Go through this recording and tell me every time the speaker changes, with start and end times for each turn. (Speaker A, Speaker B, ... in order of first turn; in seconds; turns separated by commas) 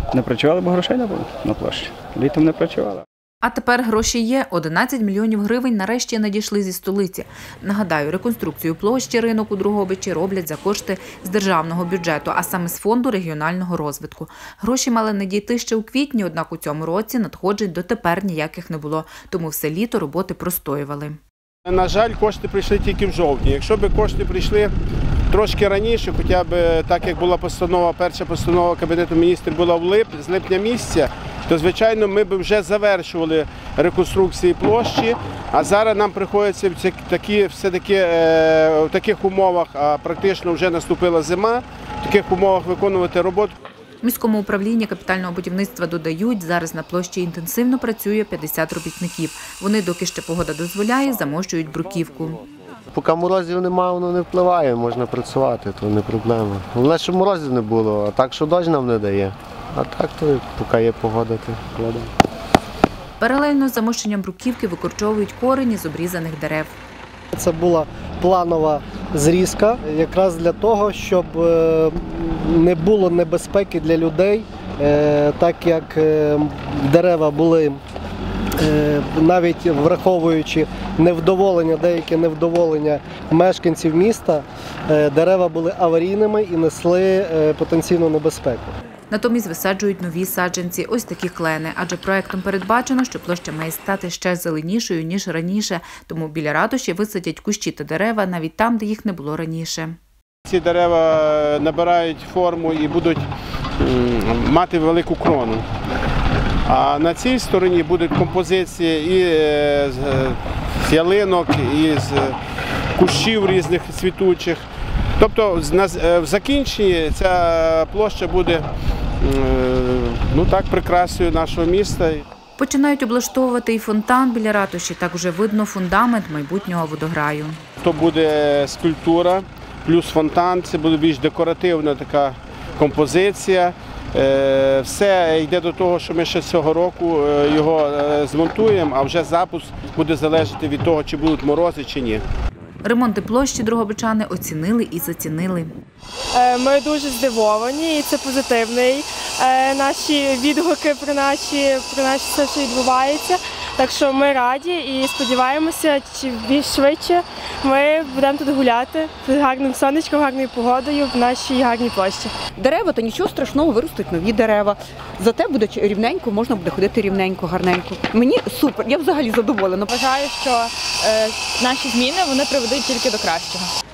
Speaker A: 0.1-3.0, Speaker B: 3.4-21.2, Speaker C: 21.6-24.7, Speaker C: 25.3-43.5, Speaker B: 44.0-52.4, Speaker D: 52.9-62.1, Speaker B: 63.2-66.7, Speaker E: 67.3-77.8, Speaker E: 78.6-88.7, Speaker B: 89.1-100.0, Speaker C: 100.5-103.2, Speaker C: 103.8-105.6, Speaker C: 106.7-112.4, Speaker C: 113.0-114.6, Speaker C: 115.2-118.7, Speaker C: 119.2-122.2, Speaker B: 122.6-127.6, Speaker C: 127.8-142.2, Speaker B: 142.8-145.7, Speaker F: 146.3-162.3, Speaker G: 162.6-169.9, Speaker H: 169.9-173.7